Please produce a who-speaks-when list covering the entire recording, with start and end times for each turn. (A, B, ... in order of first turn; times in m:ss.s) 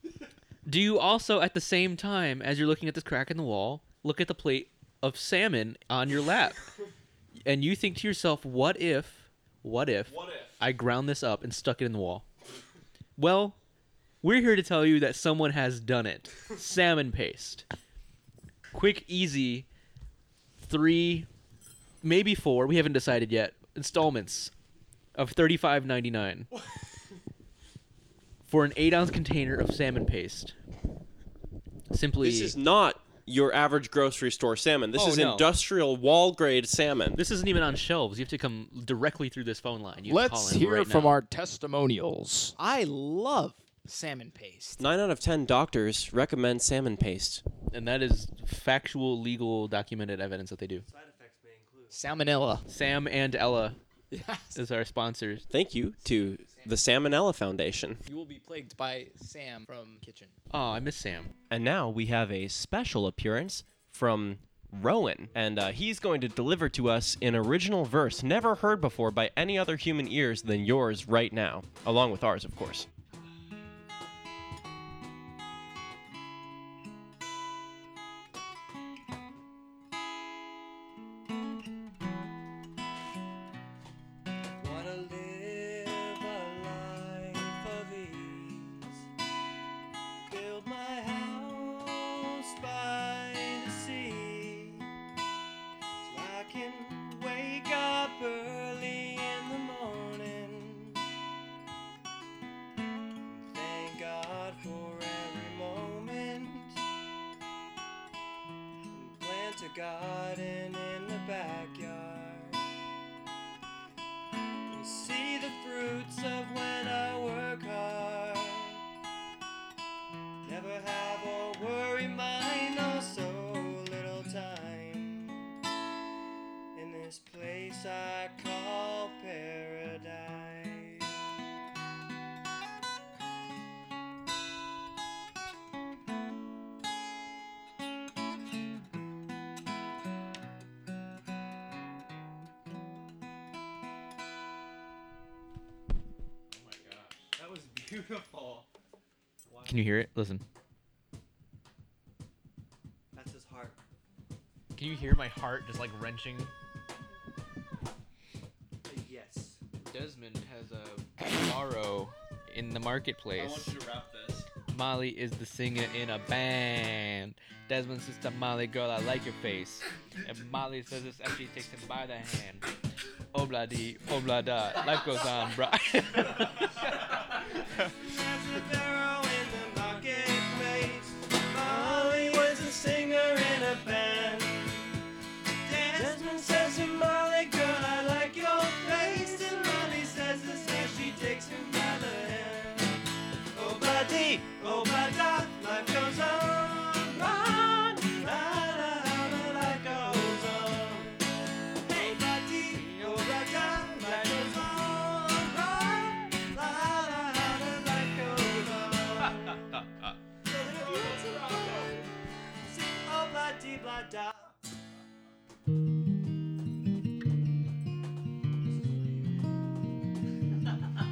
0:00.6-0:06.7 A
0:07.4-0:12.2 A
0:13.2-0:13.6 A
0:14.2-0:17.6 A
0:18.7-0:19.7 A
0:20.6-0:21.3 A
0:22.0-0:24.5 A
0:25.1-0:26.5 A
0:28.5-0:30.5 A
0:31.9-0:32.6 A
0:32.2-0:37.2 B
0:34.9-0:35.5 A
0:37.2-0:41.2 A
0:40.0-0:42.6 C
0:42.6-0:44.8 D
0:44.8-0:47.4 B
0:47.7-0:50.8 A
0:50.8-0:52.0 E
0:51.9-0:52.6 D
0:52.7-0:53.8 A
0:54.1-0:54.6 D
0:54.5-0:55.5 A
0:55.5-0:58.0 B
0:56.0-0:56.8 D
0:58.0-1:00.4 D
1:00.5-1:01.3 A
1:01.5-1:12.9 B
1:24.6-1:29.0 E
1:30.3-1:34.9 E
1:36.0-1:41.0 E
1:43.3-1:46.8 E
1:48.9-1:52.6 E
1:54.7-1:58.8 E
2:00.4-2:05.5 E
2:06.7-2:11.2 E
2:26.5-2:27.1 A
2:27.3-2:28.7 E
2:29.4-2:29.8 E
2:29.6-2:30.4 A
2:33.1-2:33.8 E
2:34.8-2:36.5 A
2:38.8-2:39.6 E
2:39.8-2:43.8 A
2:43.6-2:44.1 E
2:44.7-2:52.6 A
2:53.3-2:57.0 A
2:56.5-3:05.0 E
3:05.6-3:21.2 E
3:21.8-3:29.9 E
3:30.4-3:34.5 E
3:38.6-3:39.4 E